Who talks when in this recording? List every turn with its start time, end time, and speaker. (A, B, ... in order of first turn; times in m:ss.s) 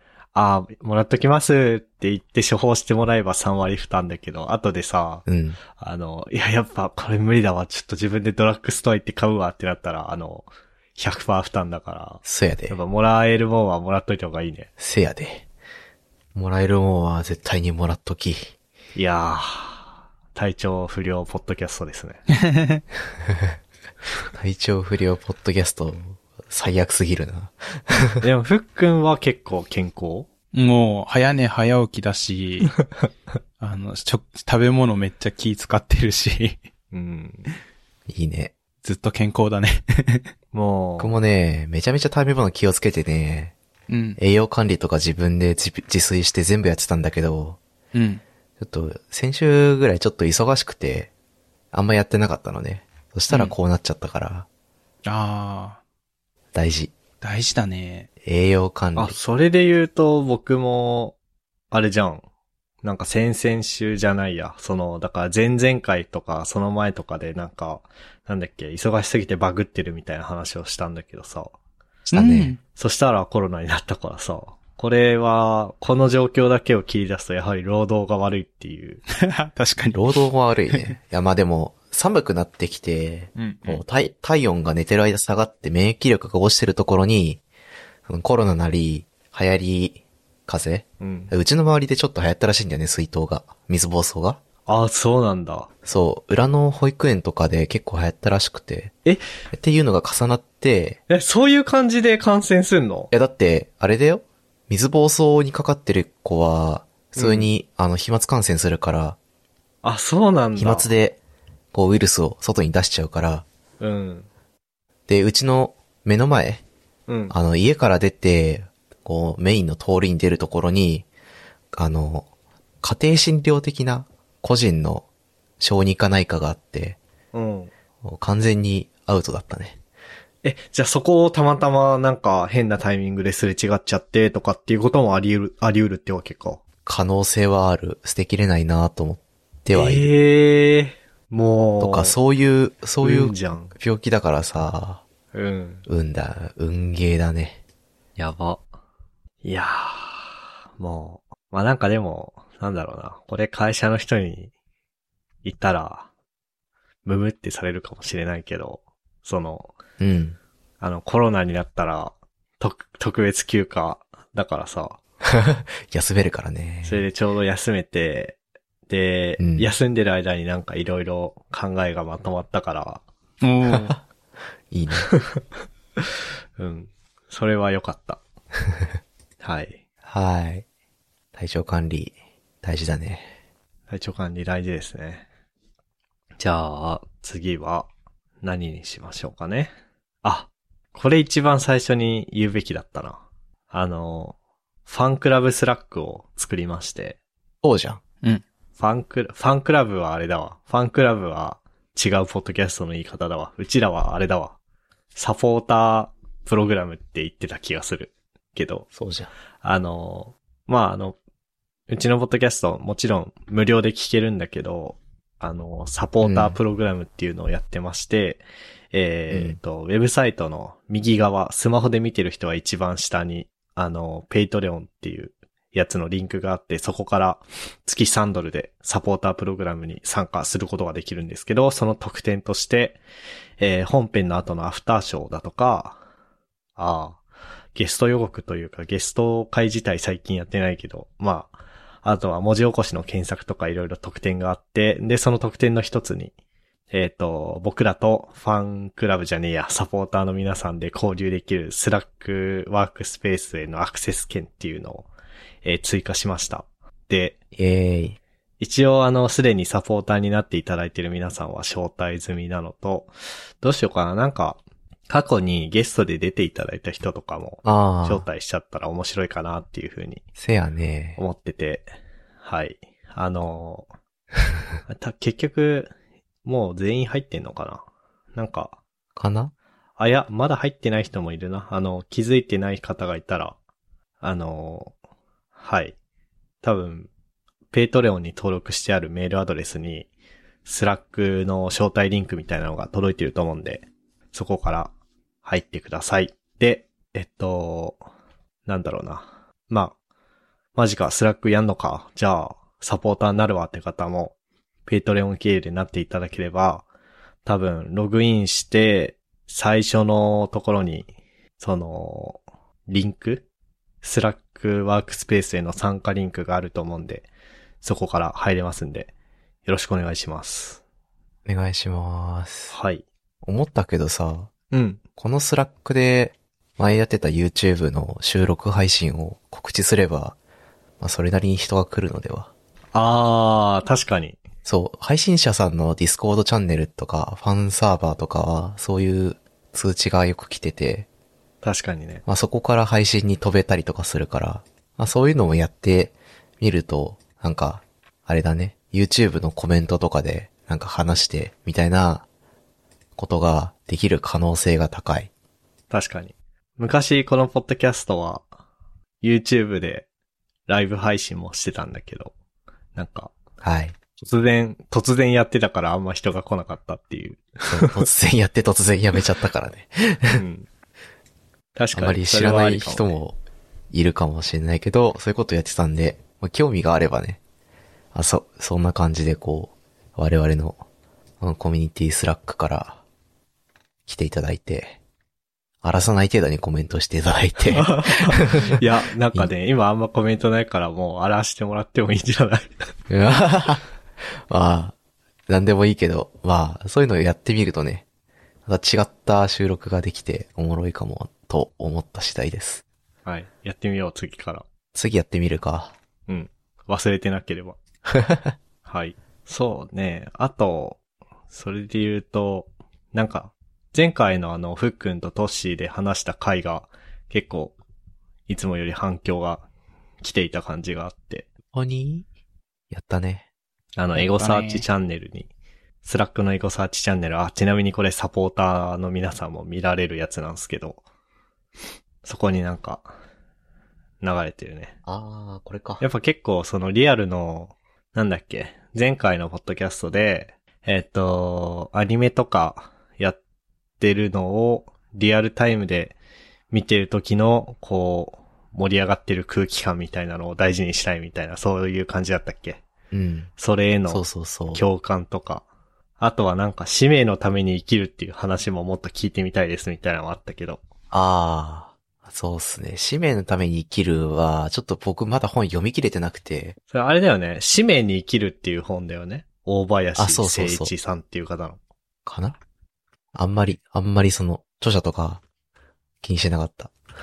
0:00.3-0:05.2 A
0:05.3-0:05.6 B
0:05.8-0:14.7 A
0:12.2-0:12.8 B
0:14.8-0:15.5 B
0:16.4-0:18.5 B
0:19.0-0:22.2 A
0:22.4-0:22.8 C
0:24.3-0:28.2 B
0:28.2-0:30.3 A
0:30.5-0:32.8 C
0:33.6-0:36.6 C
0:36.9-0:37.5 A
0:38.1-0:38.5 B
0:38.8-0:40.3 C
0:40.5-0:41.2 A
0:41.0-0:43.6 B
0:43.9-0:44.2 C
0:44.2-0:47.6 B
0:47.9-0:48.2 C
0:48.6-0:51.1 B
0:51.7-0:54.5 B
0:53.3-0:53.6 C
0:55.1-0:55.8 C
0:56.5-0:56.9 B
0:57.2-0:58.1 C
0:58.2-0:59.2 B
0:59.0-1:01.2 A
1:01.7-1:02.2 A
1:02.8-1:11.6 A
1:12.1-1:12.5 B
1:12.1-1:12.6 C
1:12.8-1:19.0 A
1:19.2-1:20.0 C
1:19.9-1:27.4 B
1:23.4-1:23.8 C
1:28.1-1:34.4 B
1:31.0-1:31.3 A
1:34.7-1:35.7 A
1:35.8-1:39.0 B
1:39.5-1:41.0 B
1:41.1-1:43.1 A
1:43.1-1:49.2 B
1:47.2-1:47.5 A
1:49.8-1:50.9 A
1:50.6-1:51.2 B
1:51.7-1:53.5 B
1:53.8-1:54.3 A
1:55.1-1:56.6 B
1:57.1-1:57.3 A
1:57.3-2:01.1 B
2:01.7-2:02.3 B
2:02.8-2:05.1 B
2:05.6-2:07.0 B
2:07.3-2:07.7 A
2:08.0-2:09.8 B
2:10.4-2:16.6 A
2:16.8-2:20.1 B
2:19.7-2:22.2 A
2:21.8-2:25.0 B
2:23.0-2:23.7 A
2:25.3-2:25.8 A
2:25.9-2:27.6 B
2:28.2-2:28.6 A
2:29.4-2:34.5 A
2:35.4-2:36.1 A
2:37.0-2:39.7 A
2:40.0-2:40.4 B
2:40.8-2:45.0 A
2:45.2-2:47.0 B
2:46.8-2:48.4 A
2:48.9-2:53.0 A
2:49.4-2:49.7 B
2:53.4-2:54.0 C
2:53.7-2:54.0 B
2:54.7-2:55.1 B
2:55.1-2:55.4 A
2:56.6-2:58.2 A
2:59.4-2:59.8 A
3:00.0-3:00.6 B
3:01.3-3:03.3 B
3:03.9-3:05.3 A
3:06.4-3:07.9 A
3:08.4-3:09.7 A
3:10.2-3:17.2 A
3:17.6-3:18.0 B
3:18.8-3:24.6 A
3:25.2-3:28.9 A
3:28.9-3:29.3 B
3:29.6-3:31.2 A
3:31.9-3:53.0 A
3:36.2-3:36.6 B
3:39.3-3:39.6 B
3:53.6-3:56.0 A
3:56.8-3:57.2 A
3:57.8-4:06.3 A
4:06.9-4:15.1 A
4:15.6-4:17.4 A
4:17.5-4:18.2 B
4:18.6-4:30.2 A
4:27.6-4:28.3 B
4:30.4-4:31.2 B
4:31.2-4:31.9 A
4:32.4-4:33.9 A
4:34.9-4:35.9 A
4:36.4-4:37.8 A
4:38.4-4:38.8 A
4:39.2-4:39.5 B
4:40.0-4:43.6 A
4:44.2-4:44.9 A
4:45.6-4:46.0 A
4:46.6-4:47.1 A
4:47.7-4:50.1 A
4:50.6-4:54.9 A
4:55.4-4:58.0 A
4:58.7-5:00.0 A
5:00.8-5:04.4 A
5:04.9-5:06.9 A
5:07.4-5:13.4 A
5:14.0-5:17.3 A
5:17.8-5:19.1 A
5:19.6-5:20.8 A
5:21.5-5:22.7 B
5:22.7-5:23.0 A
5:23.4-5:24.5 B
5:24.7-5:25.0 A
5:25.2-5:30.4 B
5:31.0-5:32.5 B
5:32.9-5:34.4 A
5:34.7-5:41.1 B
5:41.6-5:42.2 A
5:42.3-5:52.3 B
5:53.2-5:55.3 B
5:55.9-5:58.5 A
5:59.2-6:00.1 A
6:00.7-6:02.3 A
6:03.0-6:03.3 A
6:03.6-6:04.0 B
6:04.2-6:08.0 A
6:07.7-6:10.4 B
6:10.3-6:10.7 A
6:11.8-6:13.2 A
6:11.9-6:13.4 B
6:13.9-6:17.4 B
6:18.1-6:20.8 B
6:21.4-6:23.0 B
6:24.1-6:25.0 B
6:25.8-6:28.8 B
6:27.7-6:32.8 A
6:33.1-6:33.8 B
6:34.5-6:35.0 B
6:35.5-6:38.0 B
6:38.7-6:42.8 B
6:43.2-6:44.6 A
6:44.9-6:45.9 B
6:46.3-6:47.8 A
6:48.1-6:48.5 B
6:48.8-6:51.0 A
6:51.5-6:57.8 A
6:58.5-6:59.6 A
7:00.2-7:01.5 A
7:01.7-7:02.3 B
7:02.9-7:03.5 B
7:04.0-7:05.5 A
7:04.2-7:04.8 C
7:06.0-7:11.0 A
7:12.2-7:13.1 A
7:14.2-7:15.0 A
7:15.1-7:16.0 B
7:16.0-7:23.4 A
7:24.0-7:26.2 A
7:26.7-7:32.8 A
7:33.1-7:33.5 B
7:33.6-7:35.6 A
7:34.1-7:34.8 B
7:36.2-7:40.8 A
7:41.1-7:46.8 B
7:46.9-7:51.8 A
7:50.2-7:50.9 B
7:52.3-7:52.6 B
7:53.3-7:55.4 B
7:56.2-7:57.0 B